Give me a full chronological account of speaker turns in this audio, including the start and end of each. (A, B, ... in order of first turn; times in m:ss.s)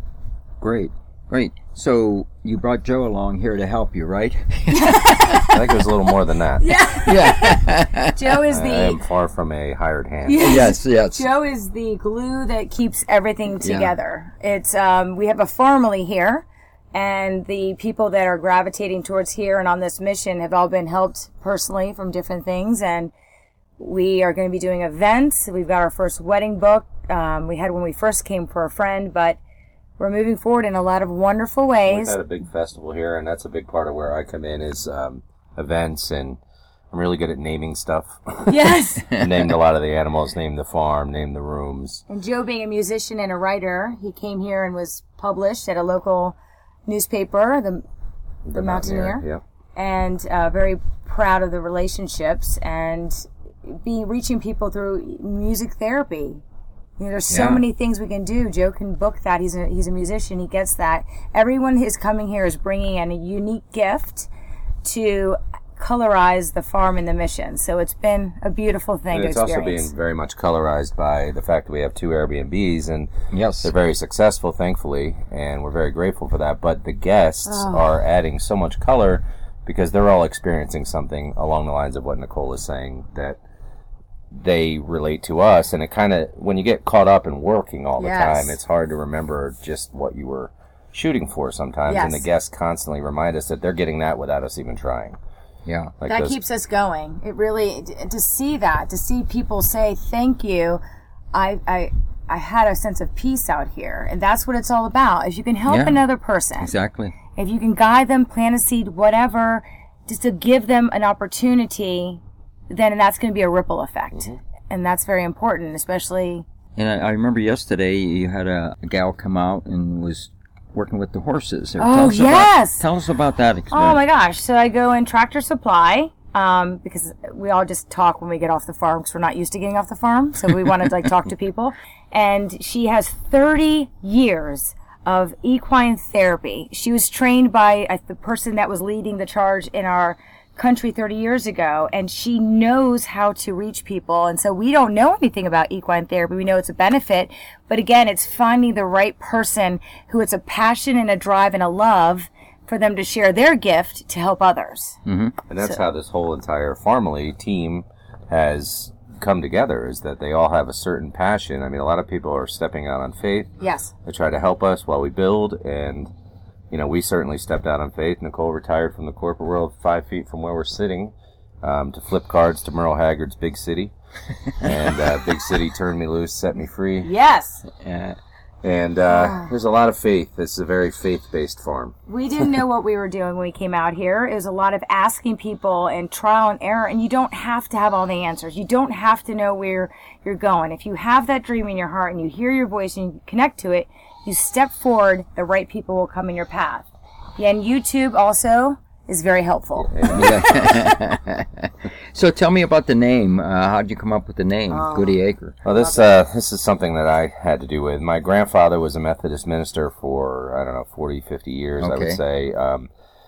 0:00.6-0:05.4 A
0:04.7-0:05.7 B
0:05.5-0:06.6 C
0:06.6-0:09.0 B
0:07.0-0:08.4 A
0:08.5-0:10.7 C
0:10.2-0:23.1 B
0:10.4-0:11.3 A
0:13.6-0:13.9 A
0:23.8-0:29.4 B
0:30.0-0:32.2 B
0:31.8-0:36.4 C
0:36.9-0:38.6 C
0:38.5-0:39.1 B
0:39.2-0:42.0 C
0:42.1-0:47.8 B
0:48.4-0:49.4 C
0:48.5-0:56.4 B
0:57.0-1:04.3 B
0:57.3-0:57.6 A
1:04.8-1:09.9 B
1:09.1-1:13.1 C
1:13.3-1:13.7 A
1:13.6-1:23.4 C
1:17.4-1:17.9 B
1:24.3-1:35.2 C
1:28.0-1:28.6 B
1:31.8-1:32.3 B
1:35.6-1:35.9 A
1:36.0-1:36.4 C
1:36.0-1:40.8 B
1:41.3-1:46.7 B
1:45.7-1:47.1 A
1:47.3-1:56.4 B
1:54.1-1:54.4 C
1:56.8-2:04.0 A
2:01.8-2:02.8 B
2:03.7-2:35.0 B
2:35.0-2:35.4 A
2:35.5-2:43.5 C
2:43.6-2:43.9 B
2:44.0-2:46.1 C
2:46.7-2:53.9 C
2:54.6-2:57.1 C
2:57.0-2:57.6 B
2:57.7-2:58.2 A
2:58.6-3:01.9 C
2:59.1-2:59.5 B
3:02.1-3:20.2 B
3:19.8-3:20.7 C
3:20.1-3:25.6 A
3:24.7-3:26.2 B
3:25.6-3:32.9 C
3:31.8-3:32.2 A